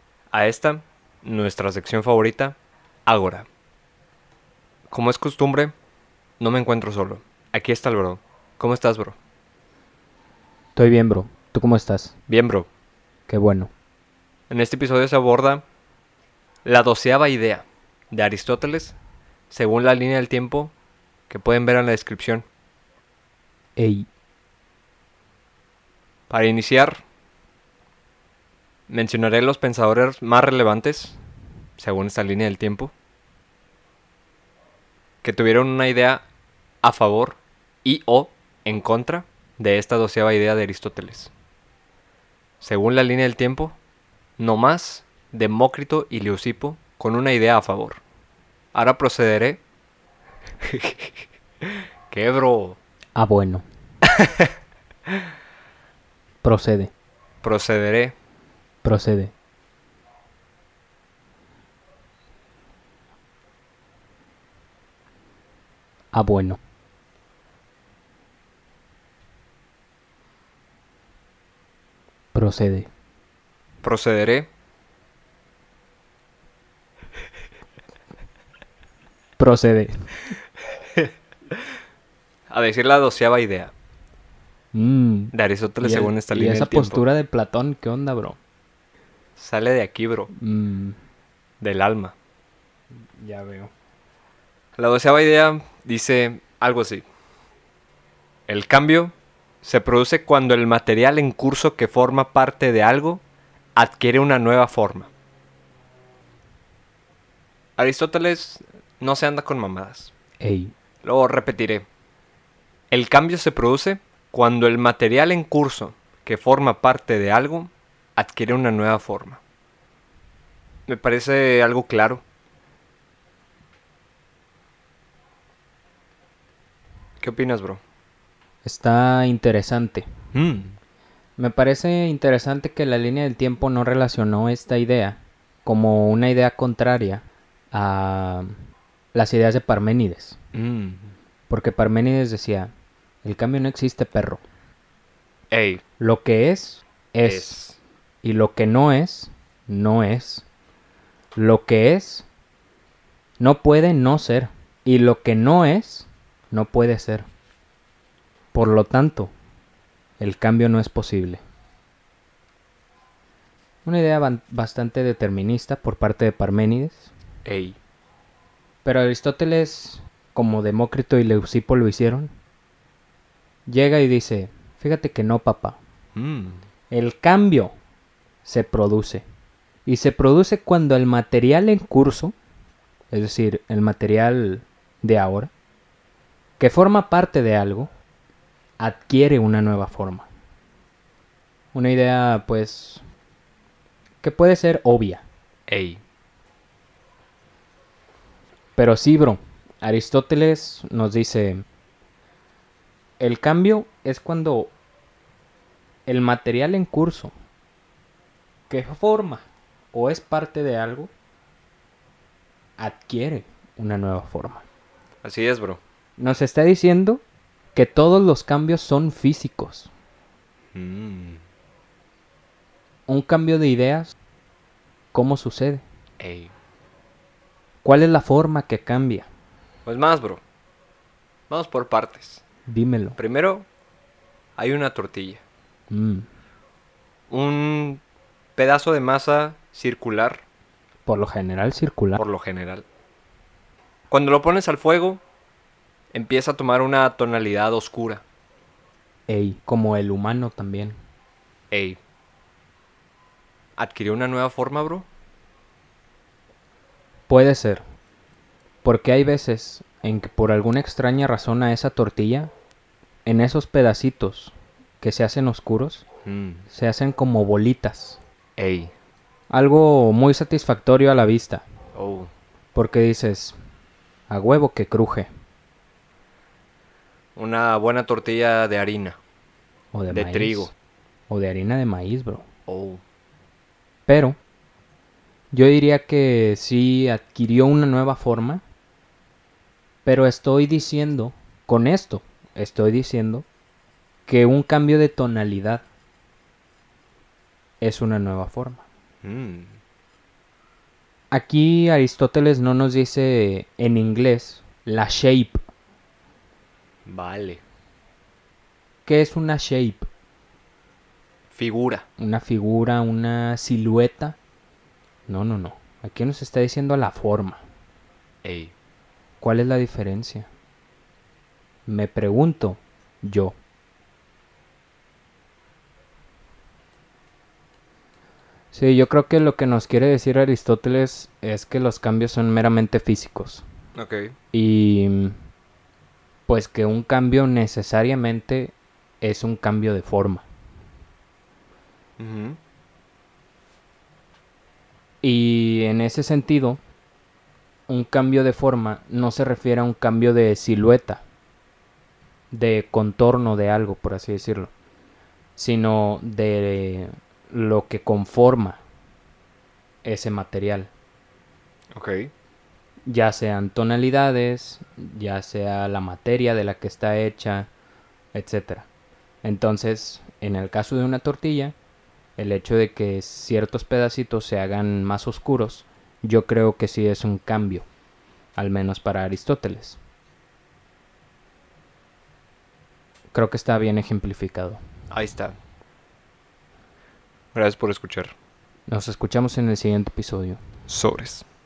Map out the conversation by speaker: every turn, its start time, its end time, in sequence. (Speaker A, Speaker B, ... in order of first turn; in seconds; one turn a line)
Speaker A: 0.3-3.5
Speaker A: 4.9-5.7
Speaker A: 6.4-9.2
Speaker B: 10.7-12.1
Speaker A: 12.3-12.7
Speaker B: 13.3-13.7
Speaker A: 14.5-15.6
Speaker A: 16.6-18.9
Speaker A: 19.5-20.7
Speaker A: 21.3-22.4
Speaker B: 23.8-24.1
Speaker A: 26.3-27.0
Speaker A: 28.9-31.2
Speaker A: 31.8-32.9
Speaker A: 35.2-36.2
Speaker A: 36.8-41.3
Speaker A: 42.6-43.8
Speaker A: 44.4-48.0
Speaker A: 48.7-49.6
Speaker A: 50.6-51.1
Speaker A: 52.1-52.8
Speaker B: 53.1-53.6
Speaker A: 54.1-54.5
Speaker B: 56.4-56.9
Speaker A: 57.4-58.1
Speaker B: 58.8-59.3
Speaker B: 66.1-66.6
Speaker B: 72.3-72.9
Speaker A: 73.8-74.5
Speaker B: 79.4-80.2
Speaker A: 82.5-83.7
Speaker B: 84.7-88.4
Speaker A: 85.3-87.0
Speaker A: 89.4-90.3
Speaker B: 90.3-91.0
Speaker A: 91.6-92.1
Speaker B: 93.2-93.7
Speaker A: 94.8-97.0
Speaker A: 98.5-103.2
Speaker A: 103.8-105.1
Speaker A: 107.8-110.1
Speaker B: 110.4-110.7
Speaker A: 111.0-111.8
Speaker A: 112.9-119.4
Speaker A: 120.9-122.2
Speaker A: 127.2-127.8
Speaker B: 128.6-130.1
Speaker A: 130.3-130.8
Speaker B: 131.4-138.6
Speaker B: 139.1-140.4
Speaker A: 140.5-141.1
Speaker B: 141.5-142.7
Speaker B: 143.2-144.4
Speaker A: 145.5-145.8
Speaker B: 146.0-147.6
Speaker A: 147.2-147.8
Speaker B: 148.2-150.5
Speaker B: 151.3-152.2
Speaker B: 153.4-157.2
Speaker B: 158.5-159.3
Speaker B: 160.2-161.4
Speaker B: 163.8-167.1
Speaker A: 167.4-167.8
Speaker B: 168.8-172.3
Speaker B: 173.7-175.8
Speaker A: 176.2-176.6
Speaker B: 176.9-177.7
Speaker B: 178.4-179.2
Speaker B: 179.8-182.3
Speaker B: 183.1-185.5
Speaker B: 186.6-187.9
Speaker B: 188.8-190.3
Speaker B: 191.7-193.0
Speaker B: 194.2-195.2
Speaker A: 195.7-196.0
Speaker B: 198.8-201.6
Speaker B: 203.2-204.7
Speaker B: 206.1-207.3
Speaker B: 208.7-211.1
Speaker B: 212.8-214.7
Speaker A: 215.2-215.8
Speaker B: 216.2-217.2
Speaker B: 217.7-219.9
Speaker A: 220.7-221.4
Speaker B: 223.1-224.1
Speaker B: 225.1-225.8
Speaker A: 226.2-226.5
Speaker B: 227.8-229.3
Speaker A: 229.8-230.4
Speaker A: 231.5-232.4
Speaker B: 232.7-233.2
Speaker A: 233.2-233.7
Speaker A: 234.6-235.4
Speaker B: 235.9-236.2
Speaker A: 237.3-238.0
Speaker A: 238.6-240.4
Speaker B: 241.1-242.2
Speaker A: 242.2-242.8
Speaker A: 244.1-245.2
Speaker A: 246.1-248.2
Speaker B: 249.3-251.0
Speaker A: 251.7-252.0
Speaker A: 253.8-255.1
Speaker B: 257.3-257.8
Speaker B: 258.8-262.5
Speaker B: 263.2-266.1
Speaker A: 266.2-266.7
Speaker B: 266.7-268.2
Speaker A: 268.6-268.9
Speaker B: 269.5-271.6
Speaker A: 271.9-272.3
Speaker B: 272.7-273.6
Speaker B: 274.3-275.3
Speaker A: 277.4-279.2
Speaker B: 279.9-280.7
Speaker A: 280.1-280.7
Speaker B: 281.3-282.5
Speaker A: 282.7-283.0
Speaker B: 284.1-284.4
Speaker B: 285.5-288.6
Speaker B: 290.0-293.4
Speaker B: 294.3-295.8
Speaker B: 297.8-298.8
Speaker A: 299.2-299.8
Speaker B: 301.3-305.6
Speaker A: 307.1-307.6
Speaker B: 309.1-310.1
Speaker A: 311.5-312.0
Speaker B: 312.2-314.4
Speaker B: 315.3-317.6
Speaker A: 318.4-318.7
Speaker B: 319.4-320.5
Speaker B: 321.9-323.6
Speaker B: 328.7-333.6
Speaker A: 333.9-334.3
Speaker B: 334.5-335.4
Speaker B: 336.5-340.4
Speaker A: 342.2-342.6
Speaker B: 345.2-346.8
Speaker B: 347.9-351.2
Speaker B: 352.5-354.7
Speaker B: 355.6-358.8
Speaker B: 360.0-360.9
Speaker A: 361.9-362.3
Speaker B: 363.1-367.7
Speaker B: 368.3-368.9
Speaker B: 369.4-371.7
Speaker B: 372.4-377.9
Speaker B: 378.6-380.0
Speaker B: 383.3-384.8
Speaker A: 385.1-385.6
Speaker A: 387.5-388.3
Speaker B: 388.9-390.6
Speaker A: 390.9-391.4